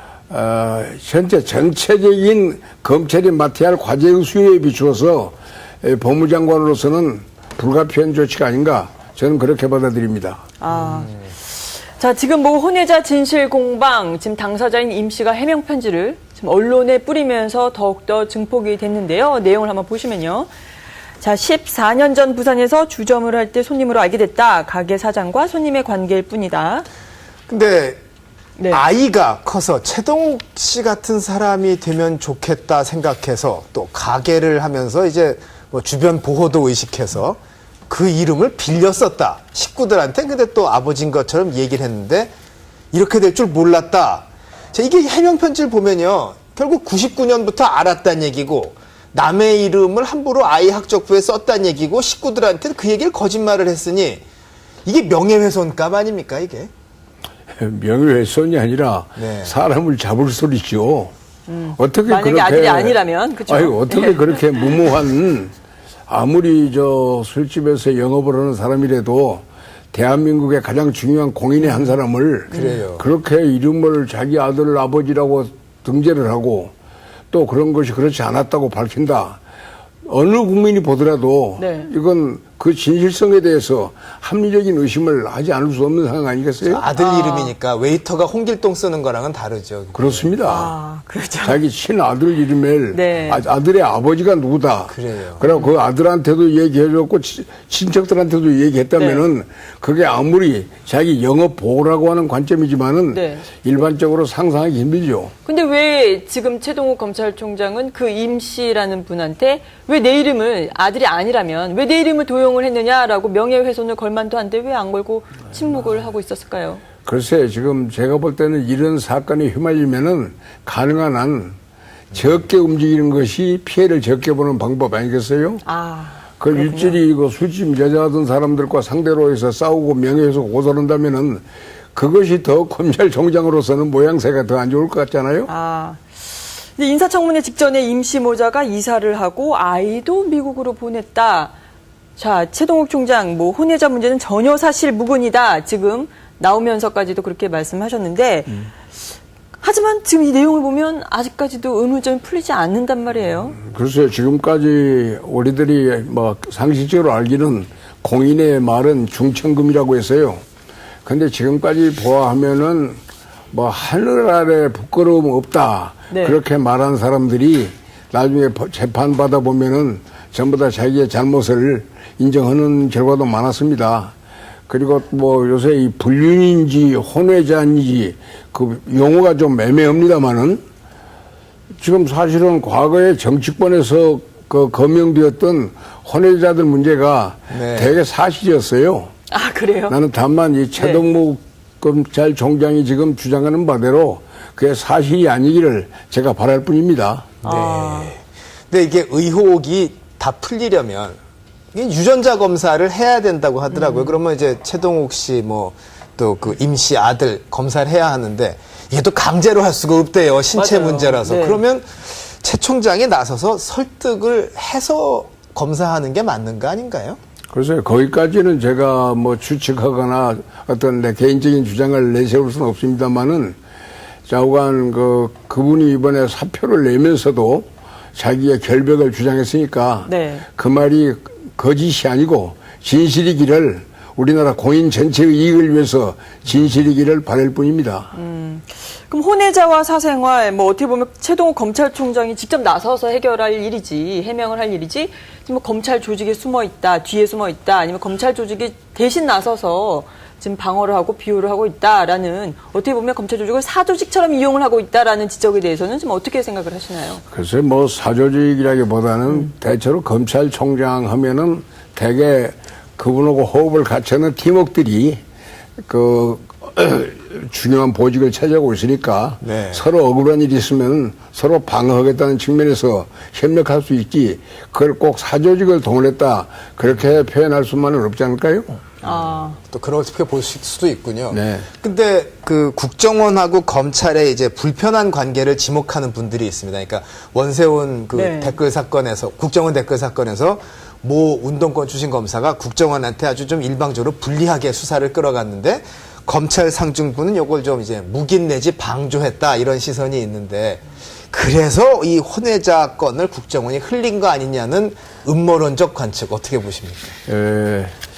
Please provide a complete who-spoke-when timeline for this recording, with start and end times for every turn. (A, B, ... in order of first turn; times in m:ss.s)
0:00.3-0:10.4 A
0:10.6-0:20.5 B
0:10.7-0:11.1 C
0:21.2-0:26.8 B
0:27.5-0:28.0 C
0:28.7-0:37.4 C
0:37.9-0:42.3 C
0:42.9-0:54.2 C
0:54.8-0:56.7 C
0:57.6-1:01.1 A
0:59.2-0:59.5 C
1:01.5-1:04.4 B
1:01.8-1:05.5 A
1:06.1-1:16.7 A
1:11.6-1:11.9 B
1:12.5-1:12.8 B
1:12.5-1:13.0 C
1:17.3-1:19.4 A
1:20.0-1:26.8 A
1:21.6-1:21.9 B
1:26.6-1:30.3 C
1:27.0-1:27.5 B
1:29.9-1:30.7 A
1:30.4-1:31.6 B
1:31.4-1:45.3 A
1:32.9-1:33.4 B
1:34.9-1:35.5 C
1:39.0-1:39.2 B
1:43.1-1:43.5 B
1:45.4-1:56.8 B
1:57.0-2:01.6 A
2:02.1-2:05.6 A
2:05.6-2:07.0 B
2:06.4-2:11.4 A
2:11.9-2:15.5 A
2:15.5-2:21.5 B
2:22.2-2:28.7 B
2:29.6-2:33.6 B
2:33.6-2:40.4 A
2:41.0-2:43.0 A
2:43.5-2:54.1 A
2:46.1-2:46.4 B
2:54.7-3:00.6 A
3:01.8-3:09.1 A
3:07.5-3:08.0 C
3:09.3-3:10.0 B
3:09.9-3:17.3 A
3:10.8-3:11.0 B
3:17.4-3:21.2 C
3:17.4-3:18.1 B
3:21.7-3:37.2 C
3:23.7-3:24.2 B
3:30.5-3:31.6 B
3:37.5-3:43.6 A
3:44.3-3:58.1 A
3:50.0-3:50.4 B
3:58.1-4:17.2 B
4:17.3-4:25.2 A
4:25.8-4:38.7 A
4:29.4-4:29.9 C
4:39.0-4:39.6 B
4:39.0-5:07.1 C
4:41.3-4:41.7 A
4:48.1-4:48.6 B
5:07.3-5:07.9 A